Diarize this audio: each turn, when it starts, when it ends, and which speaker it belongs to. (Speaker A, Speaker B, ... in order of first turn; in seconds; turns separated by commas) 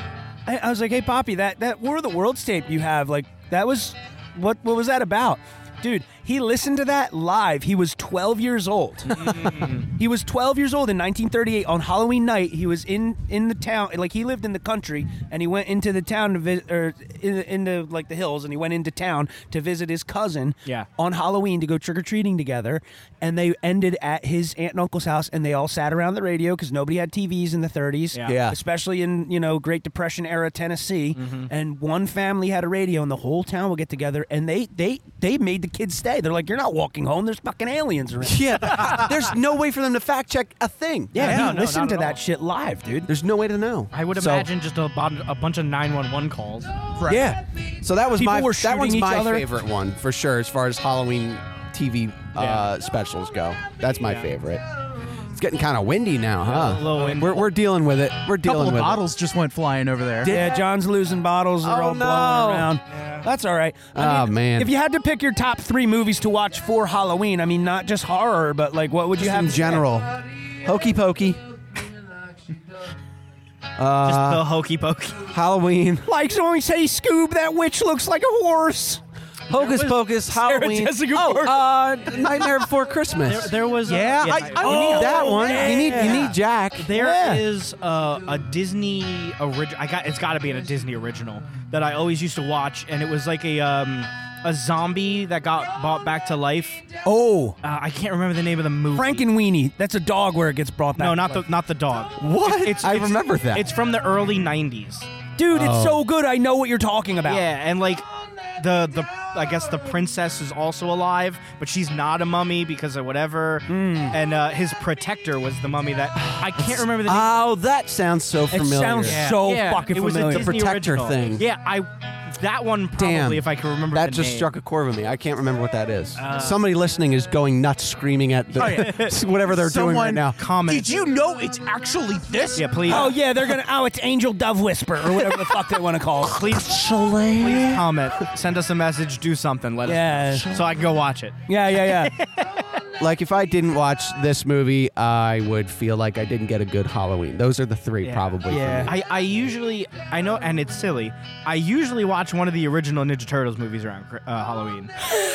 Speaker A: 0.5-38.4, Speaker B: 9.1-9.9, Speaker C: 28.2-28.6, Speaker B: 31.1-31.5, Speaker C: 38.2-41.6, Speaker A: 41.1-43.1, Speaker B: 41.1-42.2, Speaker C: 43.1-44.5, Speaker B: 43.9-46.7, Speaker D: 47.0-47.3, Speaker C: 47.0-54.6, Speaker A: 48.1-49.5, Speaker B: 52.4-52.7, Speaker C: 55.3-59.0, Speaker B: 56.5-57.5, Speaker D: 58.4-60.3, Speaker C: 60.2-60.6, Speaker A: 60.3-69.8, Speaker C: 61.6-62.7, Speaker B: 62.9-63.2, Speaker C: 63.9-64.7, Speaker C: 69.2-71.4, Speaker C: 73.8-74.5, Speaker B: 74.0-75.2, Speaker C: 75.3-76.1, Speaker A: 76.0-79.0, Speaker B: 79.5-80.0, Speaker C: 79.5-83.6, Speaker A: 79.8-81.7, Speaker B: 83.2-96.8, Speaker D: 83.8-85.3, Speaker A: 84.6-86.4, Speaker C: 84.6-86.9, Speaker A: 86.9-87.5, Speaker A: 97.0-97.6, Speaker B: 97.6-99.3, Speaker A: 98.9-101.5, Speaker B: 101.0-105.1, Speaker C: 102.2-103.7, Speaker A: 105.4-107.5, Speaker C: 105.5-106.0, Speaker B: 107.3-108.0, Speaker B: 108.6-117.4, Speaker A: 113.7-114.2, Speaker C: 116.2-119.3, Speaker A: 118.5-120.5, Speaker B: 119.0-124.5, Speaker C: 120.2-121.4, Speaker C: 123.0-130.4, Speaker B: 126.2-126.6, Speaker D: 128.6-133.1, Speaker B: 128.6-129.1, Speaker B: 130.4-130.9, Speaker B: 132.5-133.1, Speaker A: 132.9-136.5, Speaker B: 136.2-136.7, Speaker C: 136.5-137.8, Speaker B: 137.4-142.6, Speaker A: 139.8-140.5, Speaker C: 140.3-140.7, Speaker A: 141.5-142.1, Speaker C: 143.0-148.9, Speaker B: 148.0-154.9, Speaker A: 148.5-148.9